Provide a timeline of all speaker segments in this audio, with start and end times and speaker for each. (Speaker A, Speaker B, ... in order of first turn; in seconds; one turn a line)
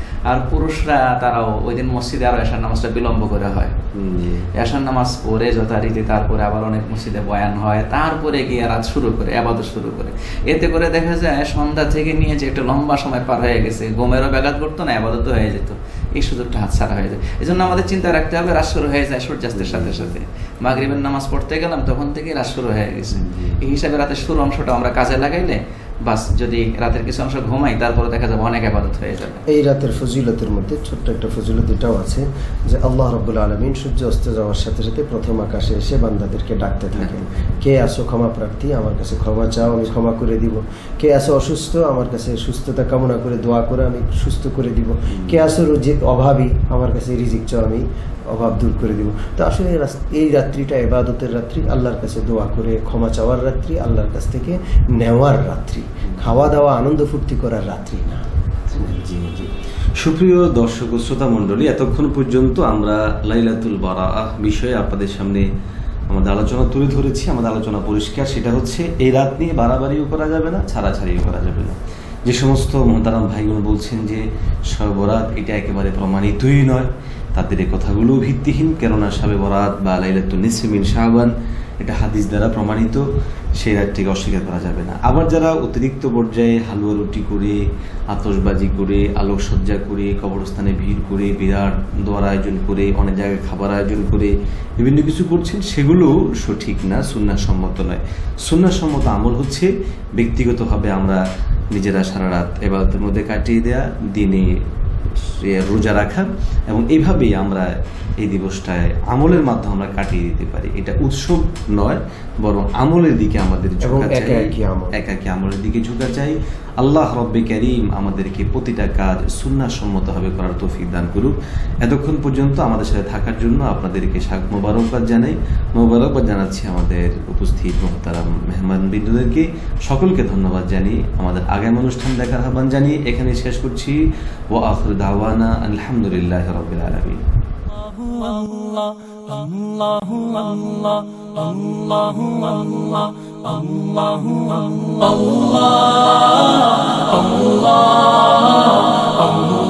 Speaker A: 0.3-3.8
Speaker B: 4.0-4.5
Speaker A: 4.5-29.4
Speaker B: 17.6-17.9
Speaker B: 19.5-20.1
Speaker B: 20.7-21.0
Speaker B: 23.1-23.8
Speaker C: 29.5-58.3
Speaker B: 37.0-37.6
Speaker B: 45.1-45.5
Speaker B: 56.1-56.4
Speaker B: 58.7-65.5
Speaker B: 66.1-83.0
Speaker B: 83.6-87.6
Speaker B: 88.1-101.2
Speaker B: 101.7-104.5
Speaker B: 105.1-134.0
Speaker C: 113.8-115.0
Speaker B: 134.5-137.2